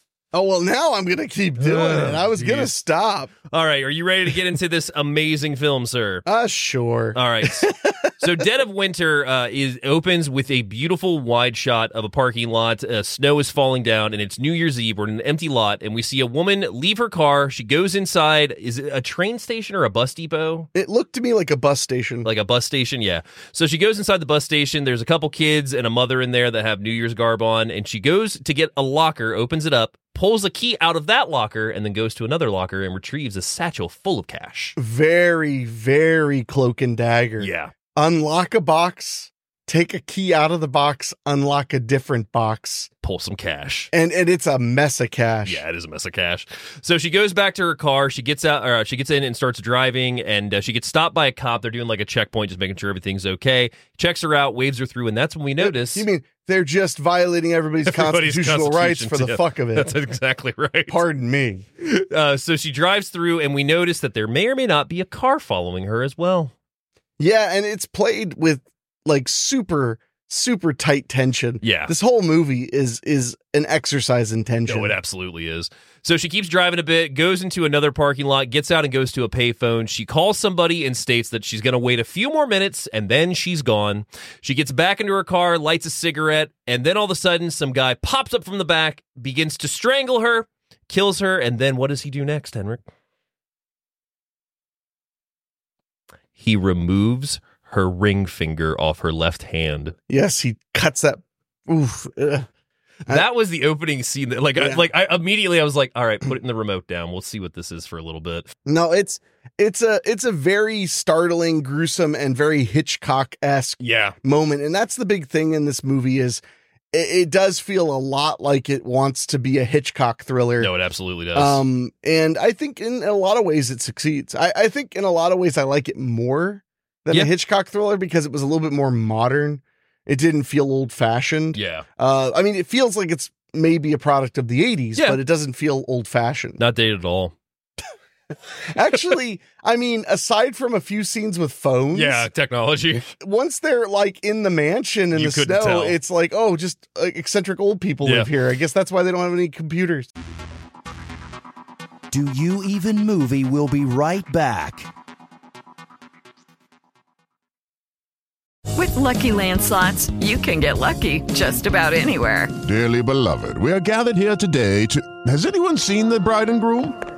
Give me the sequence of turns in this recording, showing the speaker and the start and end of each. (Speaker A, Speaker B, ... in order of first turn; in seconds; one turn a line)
Speaker A: 0.3-3.3
Speaker B: 1.6-2.7
Speaker B: 3.5-6.3
Speaker A: 6.3-8.1
Speaker B: 7.2-20.7
Speaker A: 20.8-22.3
Speaker B: 22.2-34.8
Speaker A: 34.8-42.9
Speaker B: 37.4-37.7
Speaker B: 43.0-43.9
Speaker A: 43.9-45.6
Speaker B: 45.5-56.1
Speaker A: 55.6-59.9
Speaker B: 57.9-61.0
Speaker A: 60.9-61.7
Speaker B: 61.8-66.5
Speaker A: 67.2-74.9
Speaker B: 71.6-71.9
Speaker B: 74.7-92.8
Speaker B: 96.4-100.0
Speaker A: 100.1-102.5
Speaker B: 103.1-108.5
Speaker A: 104.6-104.8
Speaker A: 108.7-120.7
Speaker B: 113.8-114.2
Speaker B: 120.6-121.6
Speaker A: 121.3-136.6
Speaker B: 131.6-131.8
Speaker B: 136.6-137.3
Speaker A: 138.7-142.3
Speaker B: 141.9-143.1
Speaker A: 143.2-150.1
Speaker B: 145.1-146.0
Speaker B: 148.0-148.3
Speaker C: 152.1-154.9
Speaker D: 158.7-162.5
Speaker E: 162.6-166.9